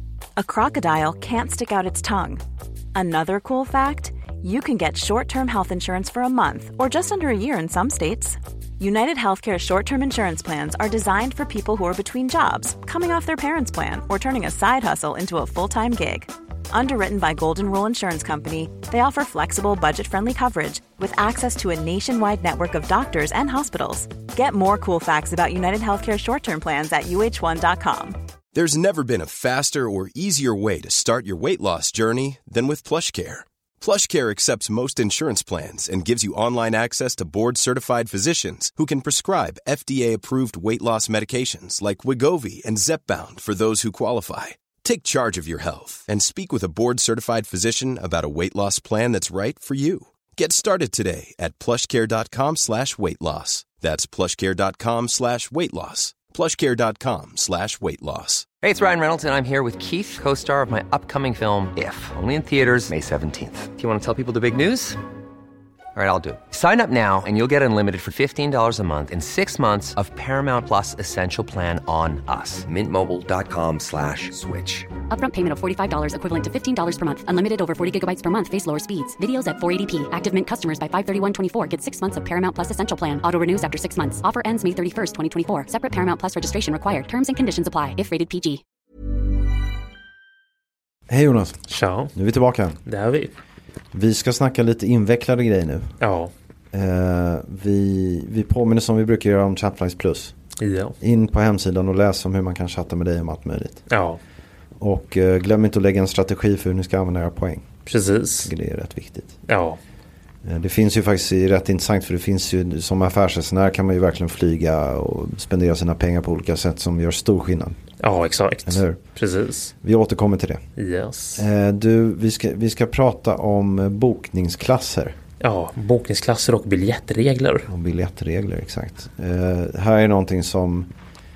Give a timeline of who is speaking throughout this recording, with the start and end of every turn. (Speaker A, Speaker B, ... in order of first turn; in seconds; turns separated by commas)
Speaker A: 0.4-2.4, Speaker A: 3.0-28.2, Speaker B: 28.5-58.5, Speaker C: 58.6-65.0, Speaker C: 66.0-74.9, Speaker D: 75.1-88.6, Speaker E: 91.1-91.6, Speaker F: 91.7-92.1, Speaker E: 92.2-92.8, Speaker F: 92.8-93.3, Speaker E: 93.9-95.9, Speaker F: 96.0-96.3, Speaker E: 96.7-100.3, Speaker F: 100.6-101.0, Speaker E: 101.0-103.8, Speaker F: 103.9-104.2, Speaker E: 104.8-107.7, Speaker F: 107.9-108.5, Speaker E: 108.4-109.3, Speaker F: 109.5-109.8, Speaker E: 110.5-117.8, Speaker F: 118.0-119.7, Speaker E: 118.7-119.0, Speaker E: 119.8-120.6, Speaker F: 120.8-121.5, Speaker E: 121.4-125.2, Speaker F: 125.4-127.7, Speaker E: 127.7-130.9